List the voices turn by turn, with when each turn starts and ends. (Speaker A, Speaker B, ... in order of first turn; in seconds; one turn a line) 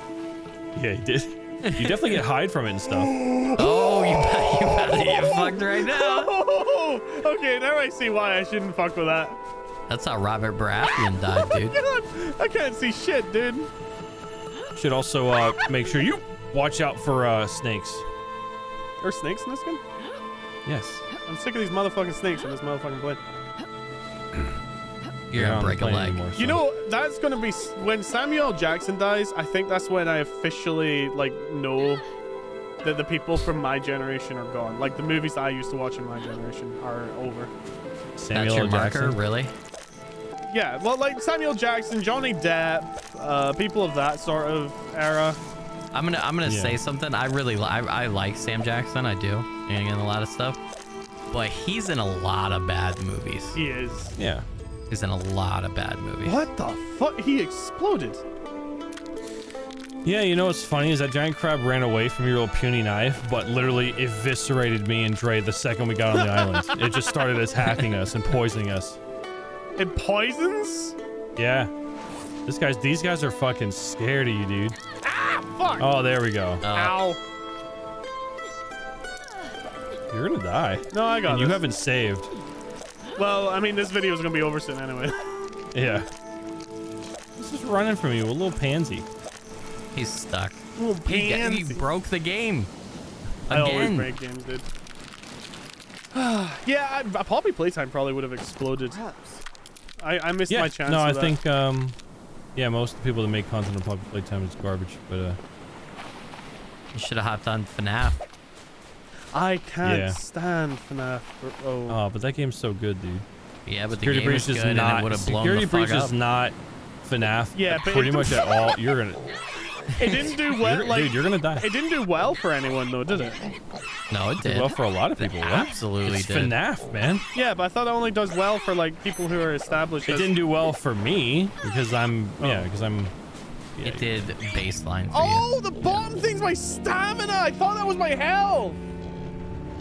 Speaker A: 0.7-3.1
Speaker B: 1.6-2.2
Speaker C: 2.9-9.4
Speaker B: 3.6-6.3
Speaker B: 9.9-11.8
Speaker C: 10.9-13.7
Speaker A: 14.7-18.0
Speaker C: 19.0-19.8
Speaker A: 20.6-21.0
Speaker C: 21.2-23.2
Speaker B: 25.3-26.2
Speaker A: 25.3-26.6
Speaker C: 26.3-32.0
Speaker C: 32.8-37.5
Speaker A: 38.2-39.2
Speaker B: 38.3-39.5
Speaker C: 40.5-45.4
Speaker B: 45.9-50.6
Speaker A: 46.4-46.8
Speaker B: 51.3-53.6
Speaker C: 53.5-54.1
Speaker A: 54.2-54.5
Speaker B: 54.9-56.5
Speaker C: 56.2-58.2
Speaker A: 60.0-69.0
Speaker C: 66.1-67.0
Speaker C: 69.8-71.0
Speaker A: 71.3-71.7
Speaker A: 72.5-74.8
Speaker C: 75.0-75.9
Speaker A: 75.8-76.6
Speaker B: 76.6-76.9
Speaker C: 76.7-77.2
Speaker A: 80.1-82.3
Speaker C: 80.9-81.6
Speaker C: 83.2-85.4
Speaker A: 85.7-86.1
Speaker A: 87.3-89.0
Speaker B: 89.9-92.7
Speaker C: 90.8-91.8
Speaker B: 93.5-94.1
Speaker C: 93.5-94.7
Speaker C: 96.1-99.4
Speaker C: 100.0-101.4
Speaker A: 100.5-102.0
Speaker A: 102.5-105.4
Speaker B: 106.9-108.2
Speaker C: 109.3-112.0
Speaker A: 109.8-110.2
Speaker A: 111.9-113.2
Speaker B: 113.7-116.1
Speaker A: 113.9-119.3
Speaker C: 117.5-118.4
Speaker C: 119.9-123.4
Speaker A: 120.4-121.7
Speaker B: 124.1-126.5
Speaker A: 124.4-127.2
Speaker C: 127.3-130.3
Speaker A: 130.1-133.1
Speaker C: 132.4-132.7
Speaker A: 133.8-134.2
Speaker B: 133.8-136.0
Speaker C: 135.1-138.8